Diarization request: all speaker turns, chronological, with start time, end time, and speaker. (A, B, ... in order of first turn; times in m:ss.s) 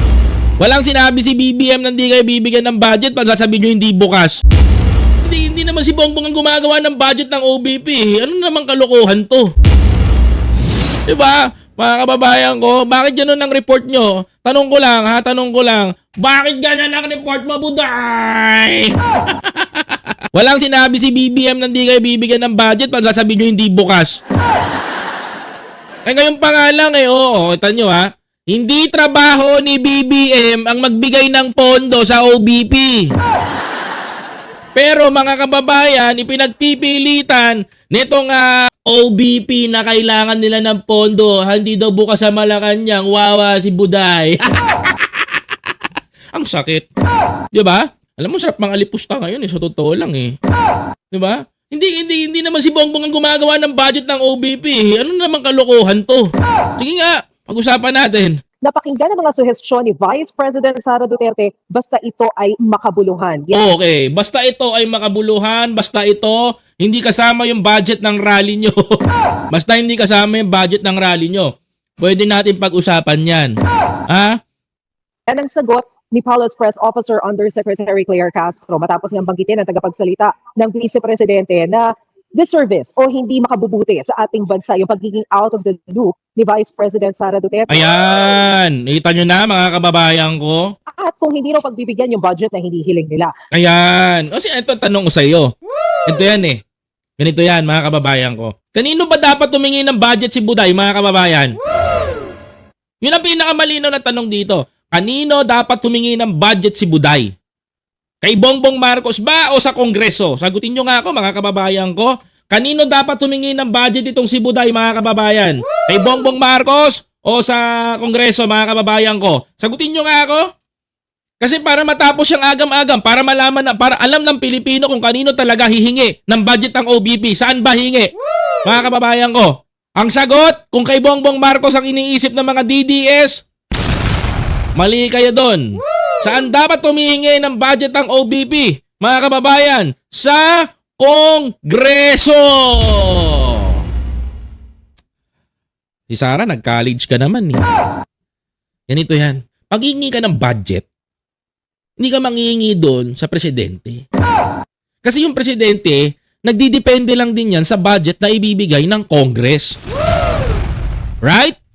0:00.6-0:04.4 A
0:05.2-0:09.5 A
0:11.1-0:19.0 A
0:20.3-0:24.2 A
0:26.1-0:33.1 A
0:34.8-0:45.1 A
0:46.3-0:46.9 A
0:47.5-0:50.3 A
0:51.1-0:58.4 A
0:58.6-1:03.6 B
1:03.5-1:09.0 A
1:09.5-1:13.6 A
1:14.1-1:14.4 A
1:15.3-1:27.8 B
1:27.7-1:30.6 A
1:31.0-1:33.3 B
1:33.5-1:35.5 A
1:36.1-1:36.6 A
1:37.2-1:41.5 A
1:43.0-1:47.3 A
1:48.2-2:00.5 A
2:01.4-2:08.1 A
2:08.6-2:13.4 A
2:14.8-2:15.6 A
2:16.2-2:23.8 A
2:26.1-2:27.6 A
2:28.9-2:30.8 A
2:32.0-2:34.0 A
2:35.0-2:39.8 A
2:41.2-2:41.6 A